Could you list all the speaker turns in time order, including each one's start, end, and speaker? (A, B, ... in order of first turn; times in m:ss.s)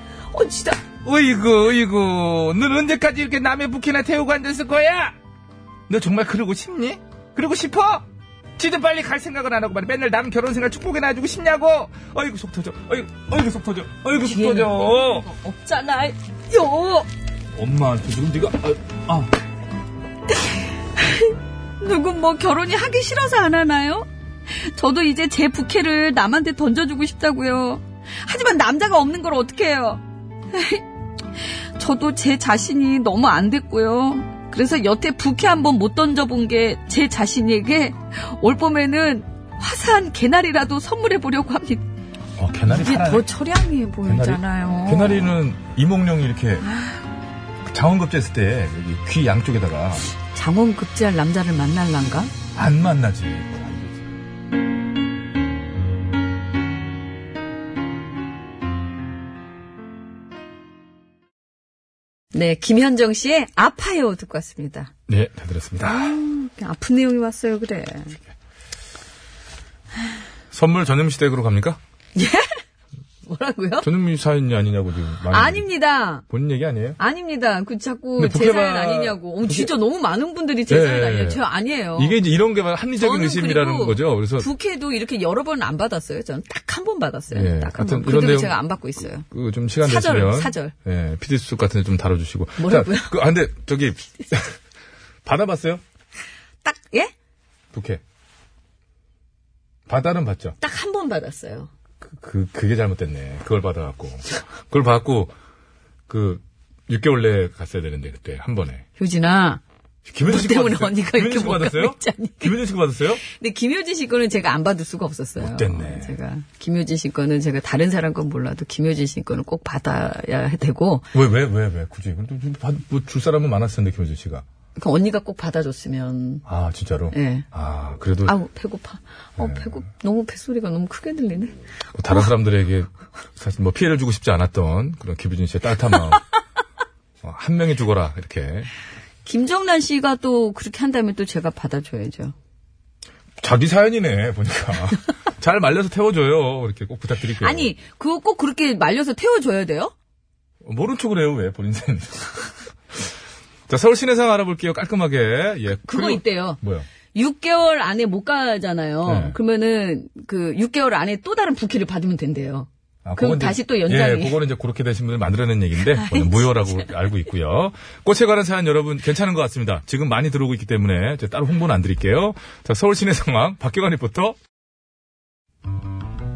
0:00.3-0:00.8 A
0:01.0-0:05.2 B
0:05.9-0:08.0 B
0:08.6-0:12.2 B
0:12.1-0:15.2 C
0:14.2-0:17.1 A
0:17.6-0:19.3 C
0:21.0-0:30.0 A
0:30.5-0:30.8 A
0:31.4-0:41.9 A
0:42.4-0:43.3 C
0:42.7-0:45.4 A
0:44.1-0:46.6 C
0:46.6-0:47.0 A
0:47.7-0:50.1 C
0:50.4-0:52.3 A
0:52.6-0:54.1 C
1:02.3-1:04.9 A
1:05.1-1:06.2 C
1:05.8-1:08.2 A
1:10.5-1:11.8 C
1:12.2-1:12.6 A
1:13.3-1:13.9 A
1:13.8-1:15.7 C
1:15.3-1:16.2 A
1:16.3-1:17.0 C
1:17.0-1:22.2 A
1:18.2-1:19.7 C
1:20.7-1:21.4 C
1:22.0-1:24.5 C
1:23.0-1:29.3 A
1:27.3-1:28.6 C
1:29.3-1:34.6 C
1:29.8-1:30.7 A
1:32.6-1:33.3 A
1:35.2-1:35.8 C
1:36.6-1:37.1 A
1:37.7-1:38.0 C
1:39.9-1:40.6 C
1:40.6-1:41.7 A
1:42.1-1:45.3 C
1:46.1-1:48.8 C
1:49.0-1:49.6 A
1:50.1-1:53.2 C
1:50.3-1:52.6 A
1:53.2-2:01.1 A
1:55.4-1:56.2 C
2:01.1-2:04.4 C
2:04.8-2:06.4 A
2:06.5-2:08.4 C
2:07.1-2:07.5 A
2:08.2-2:11.6 A
2:09.4-2:09.7 C
2:12.0-2:16.2 C
2:17.2-2:18.7 C
2:19.2-2:22.4 A
2:23.4-2:27.7 C
2:27.3-2:29.9 A
2:30.6-2:32.4 C
2:33.7-2:36.9 C
2:35.8-2:36.6 A
2:37.1-2:44.4 A
2:39.0-2:39.4 C
2:43.0-2:54.4 C
2:45.8-2:46.9 A